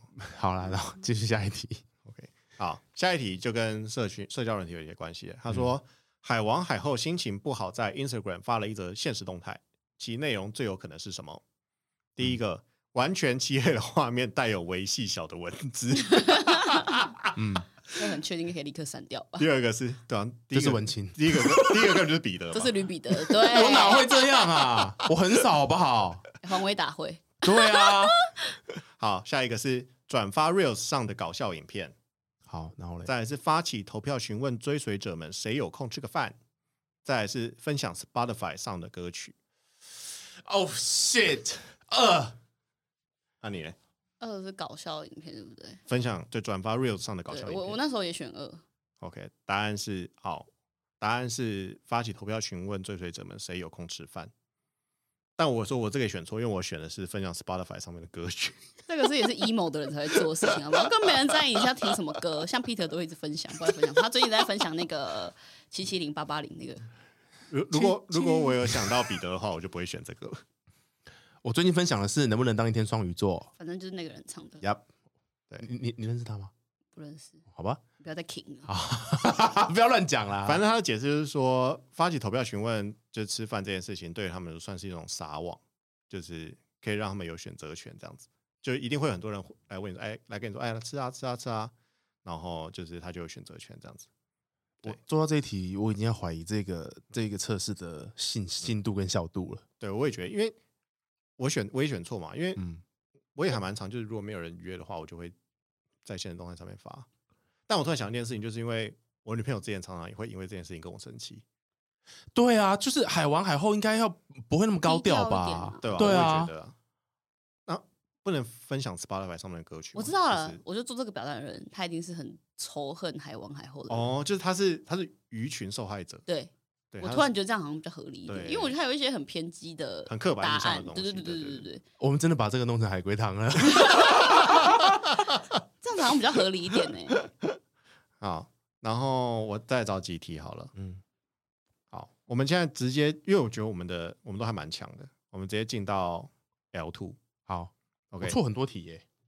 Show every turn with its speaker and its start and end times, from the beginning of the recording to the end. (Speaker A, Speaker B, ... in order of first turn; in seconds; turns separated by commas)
Speaker A: 0.2-1.8, Speaker B: 2.1-11.4, Speaker B: 12.2-17.3, Speaker C: 16.0-17.0, Speaker A: 17.4-17.7, Speaker C: 17.9-19.5, Speaker B: 19.4-22.8, Speaker A: 20.5-22.0, Speaker C: 22.5-24.1, Speaker A: 23.4-26.2, Speaker B: 24.6-25.1, Speaker C: 26.4-28.3, Speaker A: 27.4-28.1, Speaker B: 29.0-31.9, Speaker A: 32.5-33.1, Speaker B: 33.0-36.4, Speaker B: 37.0-39.4, Speaker A: 40.4-42.4, Speaker B: 43.4-43.8, Speaker C: 44.2-45.8, Speaker B: 45.9-47.8, Speaker C: 47.3-48.6, Speaker B: 49.0-50.5, Speaker B: 51.0-54.3, Speaker B: 55.4-58.6, Speaker C: 58.9-66.9, Speaker B: 67.5-70.4, Speaker A: 67.7-69.0, Speaker A: 71.4-73.5, Speaker C: 73.6-74.7, Speaker A: 74.6-74.9, Speaker A: 75.6-76.5, Speaker C: 77.0-77.5, Speaker A: 77.5-77.8, Speaker C: 78.0-78.7, Speaker A: 78.7-80.6, Speaker B: 80.5-91.7, Speaker B: 92.2-94.1, Speaker A: 94.8-99.7, Speaker B: 99.8-100.6, Speaker B: 101.4-102.7, Speaker B: 103.3-105.3, Speaker B: 106.0-107.1, Speaker B: 107.7-111.4, Speaker A: 112.3-116.5, Speaker C: 114.8-116.2, Speaker B: 115.8-116.8, Speaker B: 117.7-120.6, Speaker C: 120.0-124.1, Speaker B: 123.9-126.2, Speaker C: 126.3-131.8, Speaker B: 126.9-127.3, Speaker B: 128.3-128.8, Speaker B: 130.1-131.7, Speaker A: 132.0-135.2, Speaker C: 134.0-134.5, Speaker C: 135.8-137.2, Speaker B: 138.2-140.7, Speaker A: 140.8-141.0, Speaker B: 141.9-147.2, Speaker A: 147.5-149.0, Speaker B: 148.1-148.4